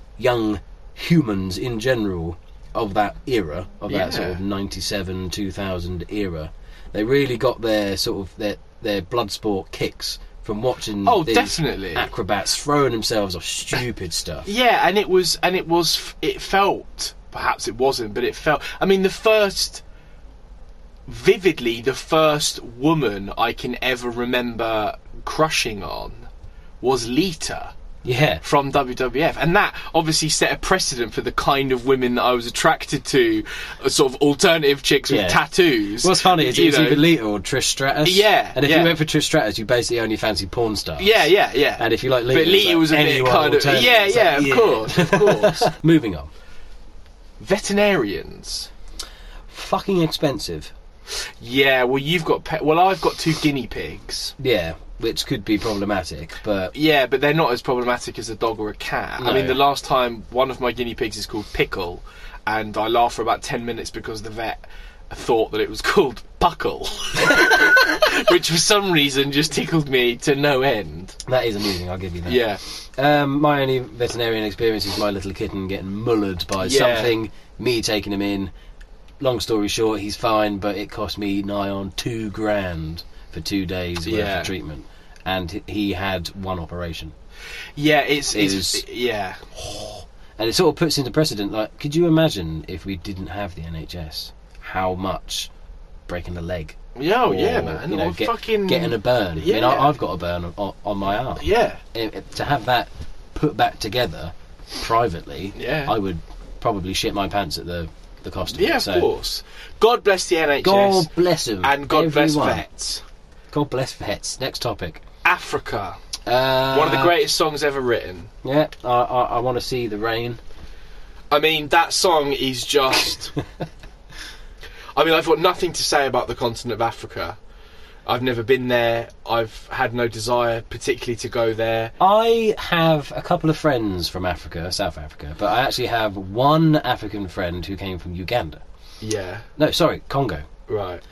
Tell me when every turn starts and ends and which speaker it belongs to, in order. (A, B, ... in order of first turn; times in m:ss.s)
0:00.2-0:14.5 A
0:03.9-0:04.4 B
0:11.0-0:12.1 B
0:14.4-0:19.8 B
0:21.1-0:26.3 B
0:26.8-0:27.7 B
0:28.0-0:28.4 A
0:28.4-0:37.1 B
0:35.1-0:35.4 A
0:36.0-0:46.3 A
0:38.0-0:38.9 B
0:41.0-0:45.7 B
0:47.4-0:48.7 B
0:49.5-0:50.7 A
0:51.4-0:54.3 B
0:54.4-0:56.7 A
0:56.7-1:11.2 B
0:59.2-0:59.6 A
1:11.2-1:12.4 A
1:12.2-1:12.6 B
1:12.9-1:18.5 A
1:16.6-1:17.1 B
1:19.2-1:27.1 A
1:24.0-1:24.5 B
1:27.8-1:30.0 B
1:28.3-1:28.8 A
1:30.4-1:35.5 A
1:36.1-1:49.1 A
1:36.9-1:40.0 B
1:41.4-1:41.8 B
1:45.6-1:45.9 B
1:48.5-1:51.1 B
1:50.6-1:52.6 A
1:51.6-1:53.0 B
1:53.5-1:55.0 A
1:55.2-1:56.0 B
1:56.2-1:57.2 A
1:56.7-1:58.3 B
1:58.4-2:00.4 A
2:01.3-2:03.3 B
2:04.9-2:07.4 B
2:08.0-2:11.9 B
2:12.0-2:18.6 A
2:19.0-2:19.5 B
2:19.6-2:20.4 A
2:20.7-2:21.0 B